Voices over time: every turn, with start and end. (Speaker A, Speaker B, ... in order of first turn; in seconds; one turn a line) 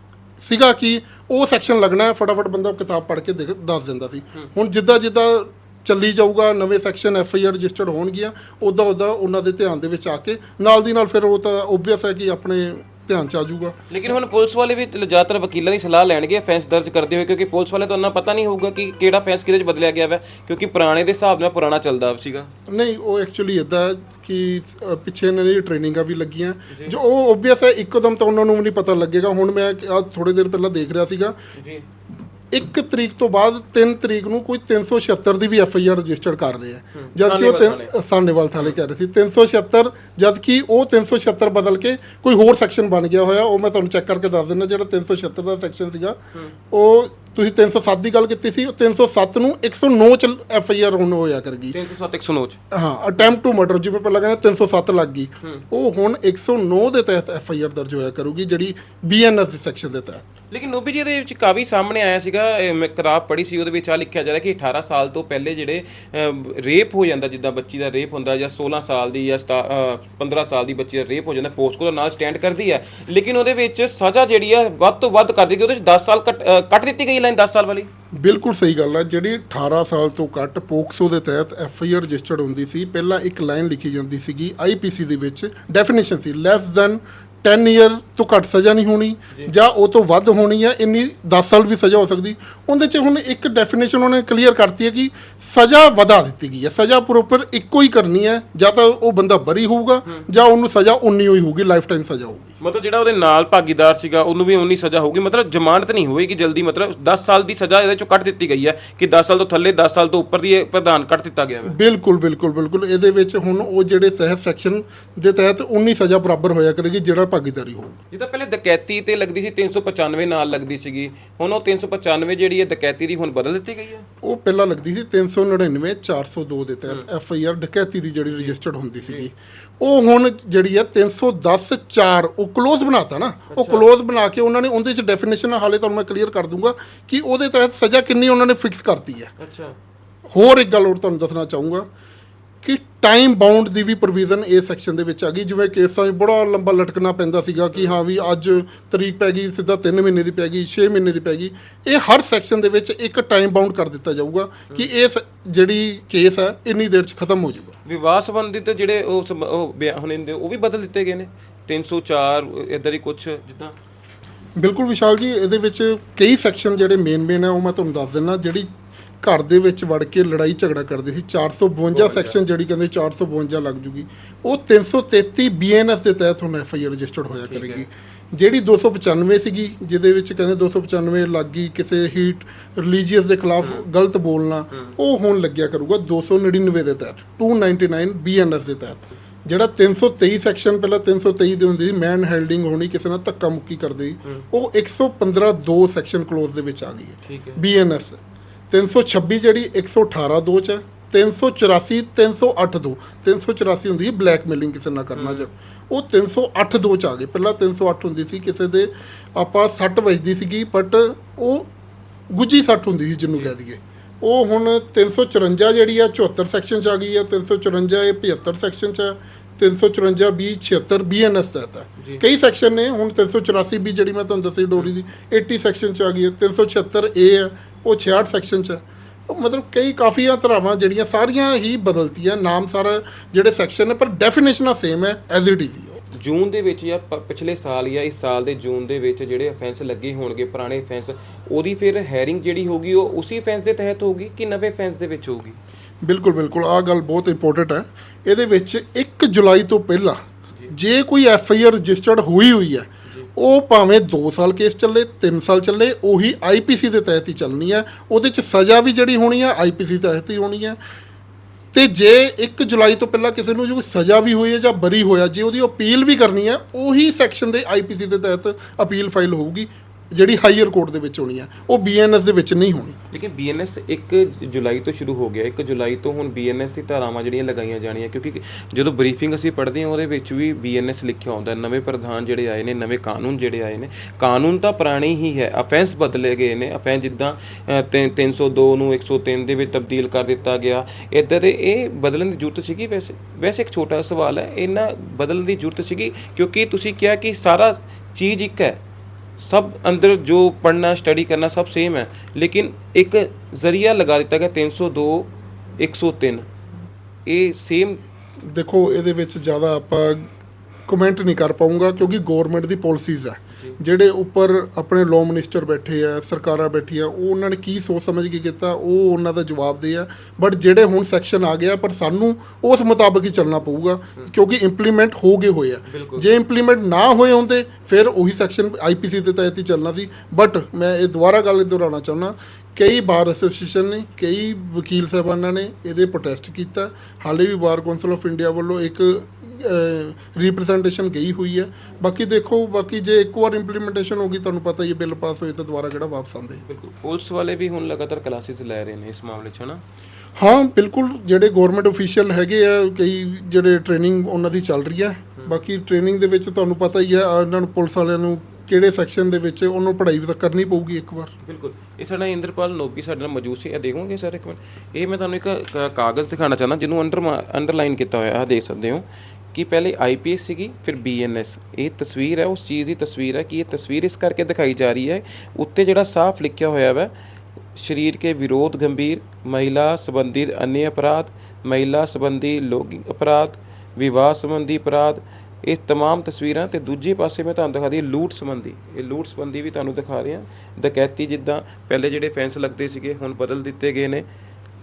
Speaker A: 0.4-13.8
Speaker B: 13.9-22.5
Speaker A: 22.7-31.4
Speaker B: 26.7-26.9
Speaker B: 31.6-31.8
Speaker A: 32.5-46.2
Speaker B: 36.9-37.9
Speaker A: 46.7-51.8
Speaker B: 51.7-52.6
Speaker A: 52.7-60.2
Speaker B: 60.5-77.9
Speaker A: 78.2-102.5
Speaker B: 102.6-111.8
Speaker A: 111.6-118.0
Speaker B: 118.1-124.0
Speaker A: 124.2-139.3
Speaker B: 128.3-129.3
Speaker B: 133.5-133.9
Speaker B: 139.4-139.8
Speaker A: 140.3-141.9
Speaker A: 142.6-157.8
Speaker B: 147.7-148.0
Speaker B: 157.8-163.7
Speaker A: 164.6-168.7
Speaker A: 169.2-198.2
Speaker B: 171.9-172.4
Speaker B: 177.5-177.9
Speaker B: 197.2-197.6
Speaker A: 198.7-211.7
Speaker B: 205.1-205.5
Speaker A: 212.3-236.0
Speaker B: 236.1-245.6
Speaker A: 246.0-260.8
Speaker A: 261.7-273.0
Speaker B: 273.1-298.8
Speaker B: 299.4-306.4
Speaker B: 307.2-308.0
Speaker A: 308.5-310.3
Speaker A: 310.9-346.6
Speaker B: 325.9-326.3
Speaker B: 346.6-349.8
Speaker A: 350.4-361.3
Speaker B: 361.4-377.1
Speaker B: 377.7-394.2